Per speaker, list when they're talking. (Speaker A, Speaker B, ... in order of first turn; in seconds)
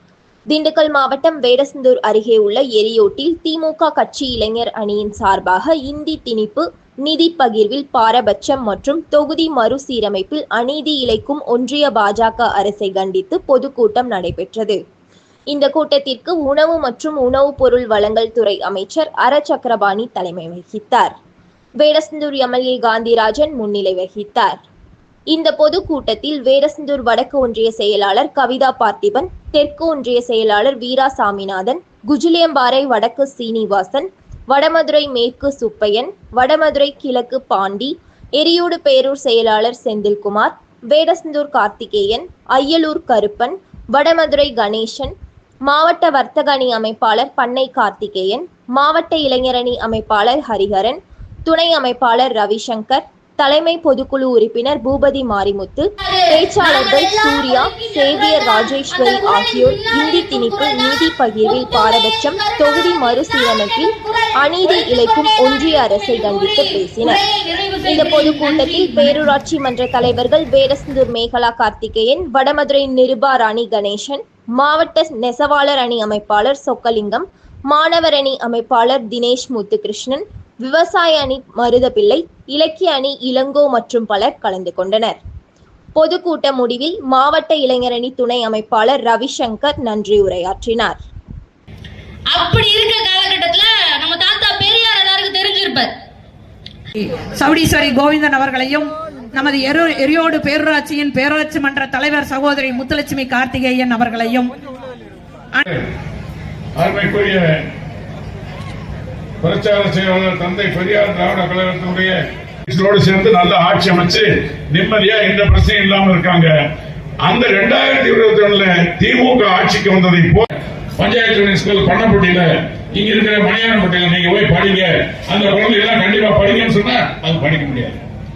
Speaker A: 0.5-14.8, 15.5-21.1, 21.8-24.6, 25.3-45.1, 45.6-67.2, 67.8-85.2, 85.9-91.0
Speaker B: 56.1-69.2, 92.3-95.9
Speaker C: 97.0-104.5
Speaker D: 106.8-107.4, 109.4-116.5, 117.2-128.0